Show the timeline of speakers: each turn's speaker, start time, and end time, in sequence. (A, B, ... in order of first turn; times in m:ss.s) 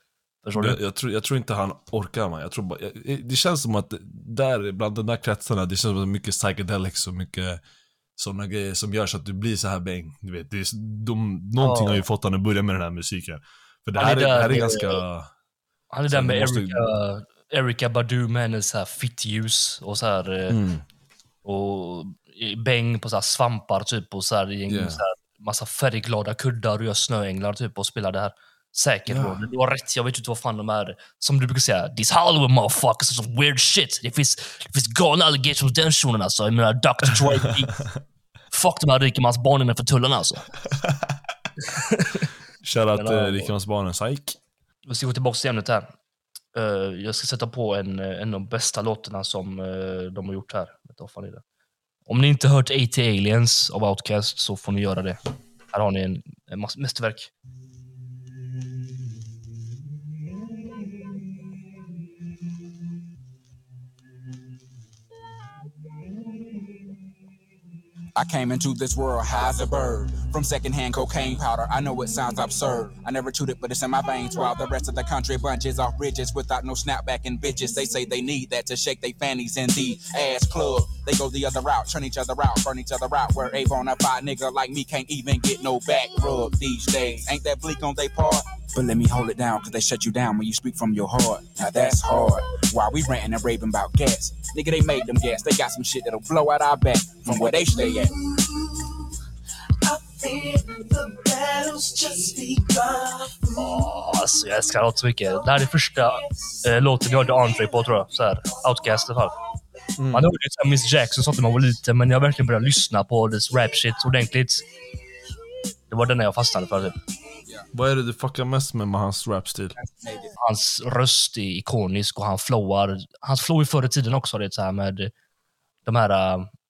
0:00.4-0:00.8 A
0:00.5-0:07.6 B
0:08.2-0:15.3 B
0:11.6-0:12.0 A
0:14.0-0:15.0 A
0:15.9-0:20.6 A
0:16.1-0:16.8 B
0:20.5-0:20.8 B
0:21.4-0:37.8 A
0:24.7-0:25.0 B
0:29.1-0:29.4 B
0:38.5-0:40.5 A
0:41.6-0:42.3 A
0:42.6-0:44.4 B
0:42.9-0:43.5 A
0:44.8-0:45.9 A
0:46.5-0:51.4 A
0:52.1-0:55.2 A
0:55.7-0:57.3 A
1:08.2-1:38.1 C
1:43.6-1:49.3 A
1:50.0-1:50.3 B
1:50.1-1:54.6 A
1:55.9-1:57.0 A
1:57.7-1:59.8 B
1:59.8-2:00.3 C
2:00.4-2:05.1 A
2:05.8-2:06.5 A